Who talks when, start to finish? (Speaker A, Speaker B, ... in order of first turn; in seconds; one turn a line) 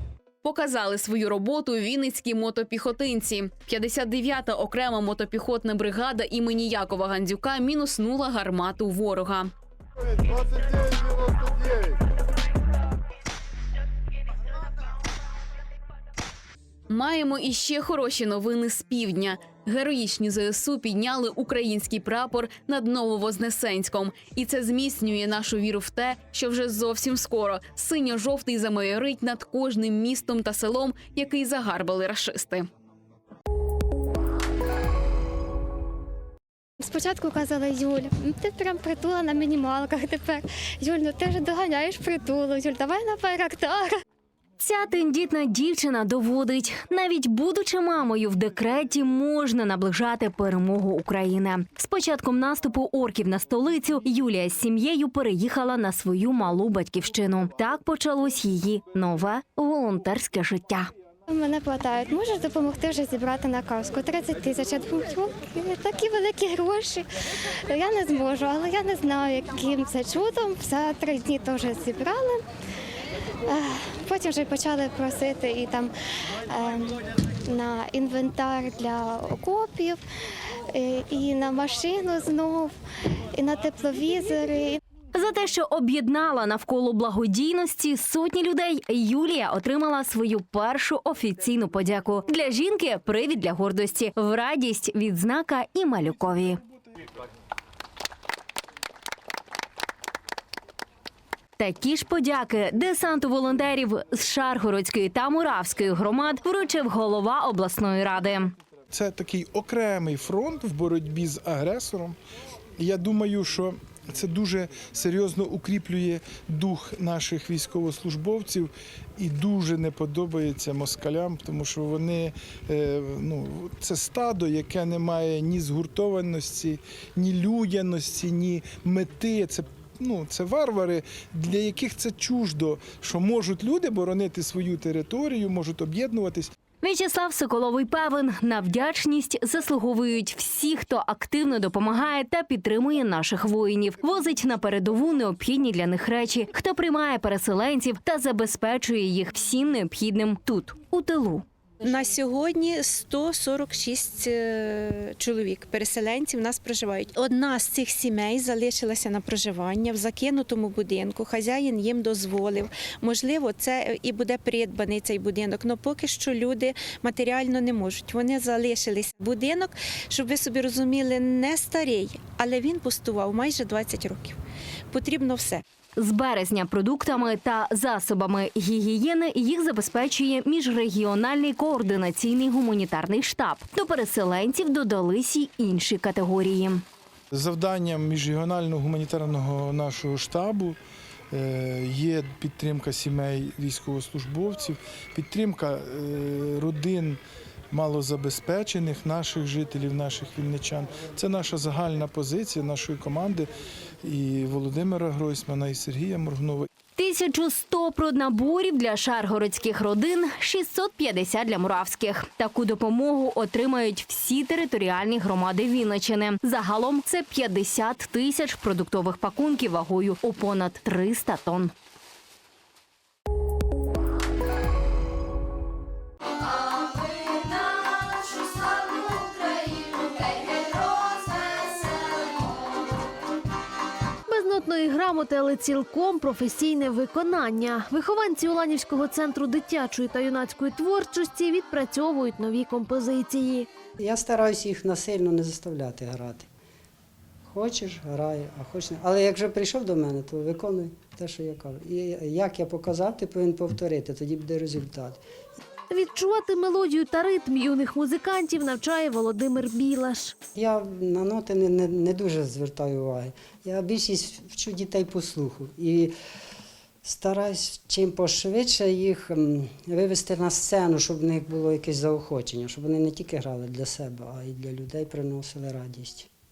Speaker A: 0.4-9.5
Speaker A: 16.9-32.7
Speaker B: 36.8-44.0
Speaker C: 44.6-60.9
Speaker B: 61.3-67.0
Speaker B: 67.7-72.4
Speaker B: 73.5-75.9
Speaker B: 76.5-80.0
Speaker B: 80.7-82.7
Speaker B: 83.3-84.8
Speaker C: 85.1-96.6
Speaker C: 101.6-108.5
Speaker D: 108.9-112.2
Speaker D: 112.8-136.5
Speaker C: 136.8-151.4
Speaker E: 151.8-174.3
Speaker E: 174.9-175.6
Speaker C: 176.0-186.8
Speaker D: 187.3-190.8
Speaker D: 191.3-197.2
Speaker D: 197.7-203.5
Speaker D: 204.0-206.7
Speaker C: 206.9-221.7
Speaker F: 234.3-243.7
Speaker G: 244.0-246.5
Speaker G: 247.5-255.2
Speaker F: 255.9-260.3
Speaker G: 260.6-266.1
Speaker G: 267.0-276.3